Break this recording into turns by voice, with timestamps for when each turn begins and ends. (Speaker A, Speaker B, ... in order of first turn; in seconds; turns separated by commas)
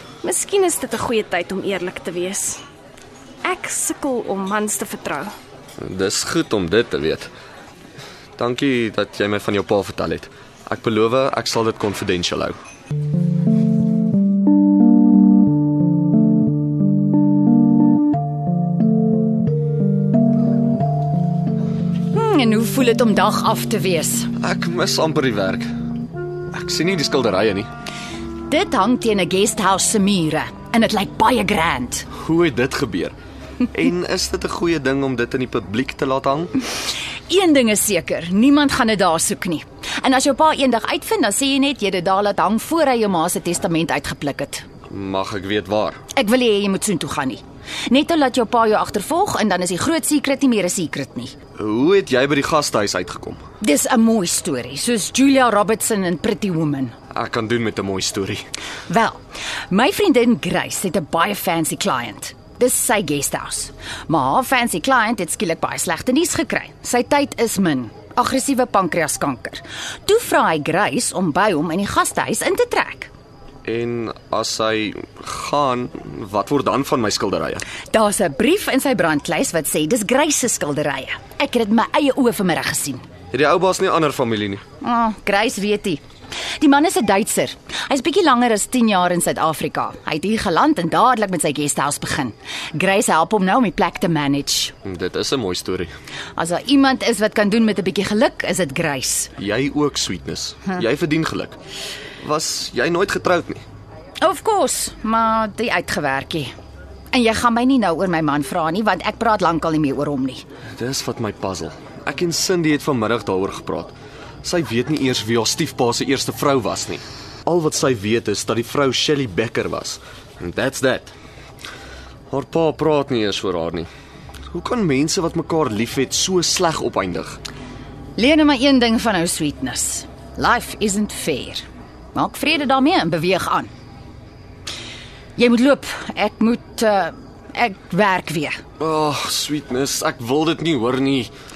Speaker A: 0.2-2.6, Speaker A: 3.5-5.3, Speaker B: 5.8-7.3, Speaker B: 8.4-12.6, Speaker C: 22.1-24.3, Speaker B: 24.4-25.7, Speaker B: 26.5-27.7, Speaker C: 28.5-32.1, Speaker B: 32.2-33.1, Speaker B: 33.7-36.5, Speaker C: 37.3-44.6, Speaker B: 44.9-46.0, Speaker C: 46.1-51.4, Speaker B: 51.6-53.4, Speaker C: 53.6-56.9, Speaker B: 57.1-58.4, Speaker C: 58.9-59.2, Speaker C: 59.7-73.1, Speaker B: 73.7-77.6, Speaker C: 77.9-83.0, Speaker B: 83.3-84.6, Speaker C: 84.8-86.0, Speaker C: 86.6-94.7, Speaker B: 94.8-95.9, Speaker C: 96.4-99.3, Speaker B: 99.4-101.6, Speaker B: 102.2-103.6, Speaker C: 104.2-106.5, Speaker C: 107.1-110.4, Speaker B: 110.8-121.1, Speaker B: 122.3-123.9, Speaker B: 124.5-127.4, Speaker C: 128.2-133.7, Speaker C: 135.4-138.6, Speaker B: 138.8-141.3